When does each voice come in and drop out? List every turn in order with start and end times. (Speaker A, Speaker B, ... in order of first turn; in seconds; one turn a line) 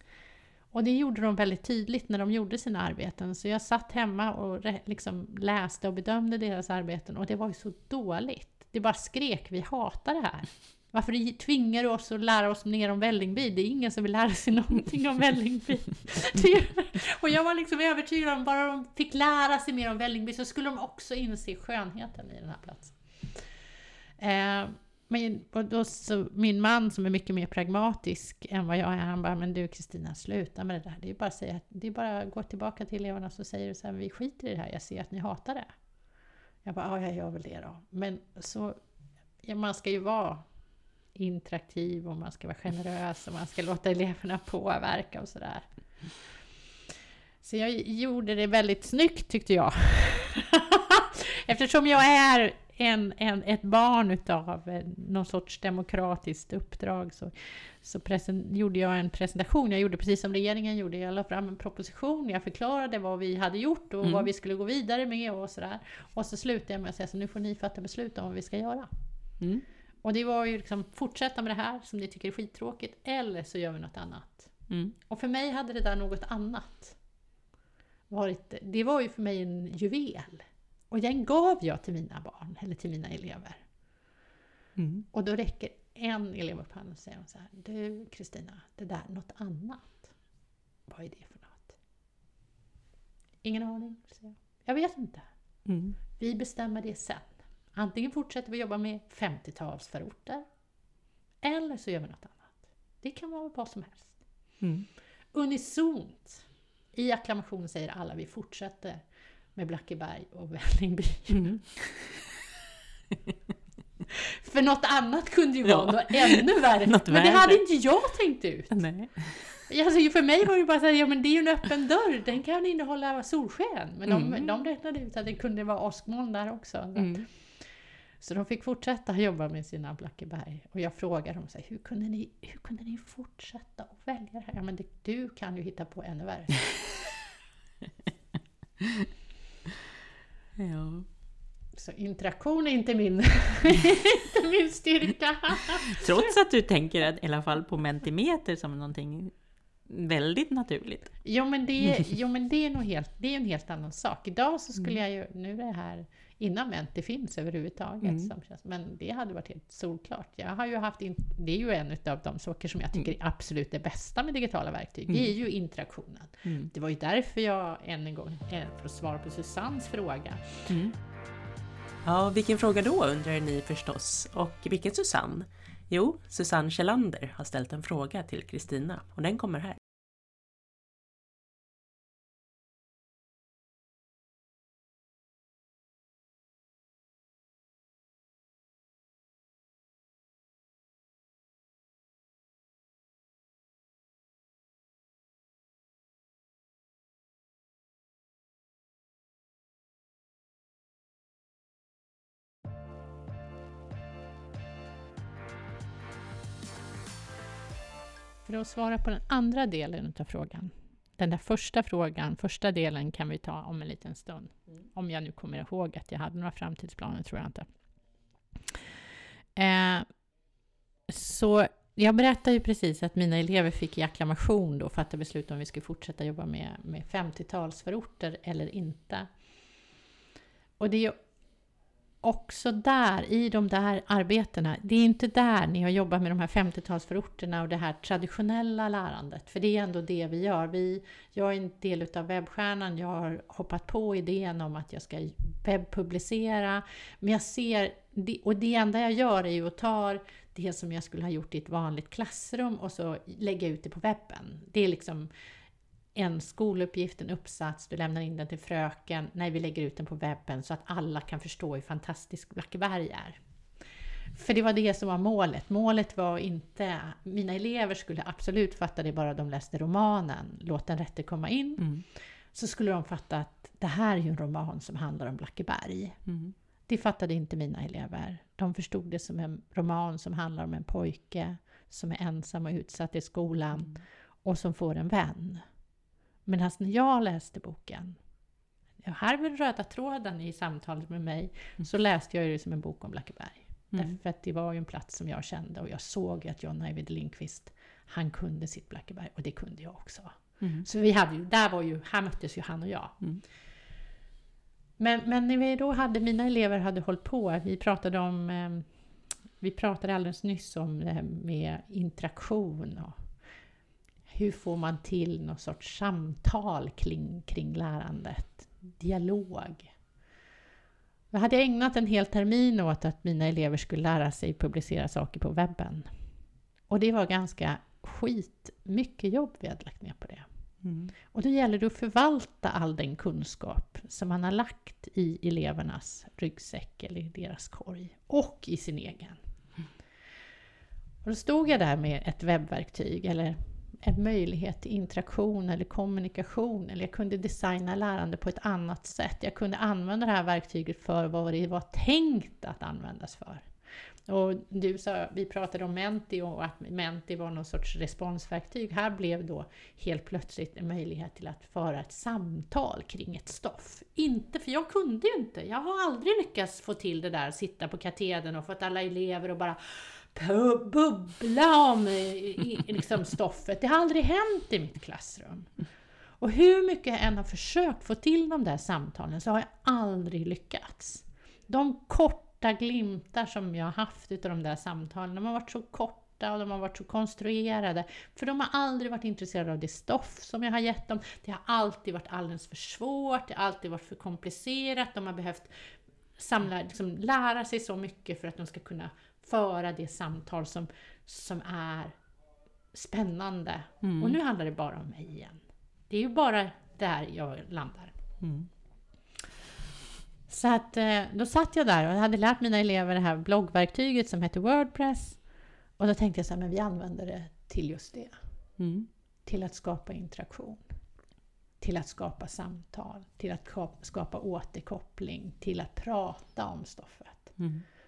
Speaker A: 0.7-23.4
Speaker A: 24.2-35.7
Speaker A: 36.6-38.8
Speaker A: 39.4-40.5
Speaker A: 41.1-45.7
Speaker A: 47.4-68.9
Speaker B: 64.0-64.3
Speaker A: 70.0-74.5
Speaker A: 75.1-77.0
Speaker A: 78.1-83.6
Speaker B: 84.8-85.1
Speaker A: 85.1-90.1
Speaker A: 90.9-91.8
Speaker A: 93.4-95.3
Speaker B: 95.7-96.0
Speaker A: 96.2-100.5
Speaker A: 101.4-104.2
Speaker B: 104.6-104.9
Speaker A: 105.3-109.0
Speaker A: 109.6-111.5
Speaker B: 111.3-112.1
Speaker A: 114.4-118.8
Speaker B: 115.7-117.6
Speaker B: 118.7-119.7
Speaker A: 119.7-127.7
Speaker B: 124.1-124.5
Speaker B: 127.0-127.3
Speaker A: 128.2-136.8
Speaker B: 138.8-139.1
Speaker B: 140.6-141.1
Speaker A: 141.7-146.0
Speaker B: 145.9-149.3
Speaker B: 149.9-151.2
Speaker A: 151.2-170.7
Speaker B: 158.0-158.3
Speaker B: 166.4-166.7
Speaker B: 170.7-170.9
Speaker C: 172.1-179.8
Speaker A: 208.5-217.7
Speaker A: 219.6-220.1
Speaker A: 221.1-229.3
Speaker A: 230.8-231.2
Speaker A: 232.2-255.3
Speaker A: 256.1-263.4
Speaker A: 264.3-276.2
Speaker B: 271.8-272.1
Speaker B: 276.3-276.6
Speaker A: 276.9-285.6
Speaker A: 286.5-288.2
Speaker A: 289.0-303.2
Speaker B: 300.6-300.9
Speaker A: 305.0-308.9
Speaker A: 309.6-313.2
Speaker A: 314.3-319.9
Speaker A: 321.3-326.1
Speaker A: 326.9-330.5
Speaker B: 330.8-331.1
Speaker A: 331.3-339.4
Speaker A: 341.2-353.7
Speaker A: 354.3-375.8
Speaker A: 376.4-402.2
Speaker A: 402.9-408.2
Speaker B: 404.0-404.4
Speaker B: 408.4-408.7
Speaker A: 410.5-415.4
Speaker A: 416.0-418.4
Speaker B: 418.8-419.1
Speaker A: 419.4-420.9
Speaker A: 421.8-427.6
Speaker B: 427.6-427.8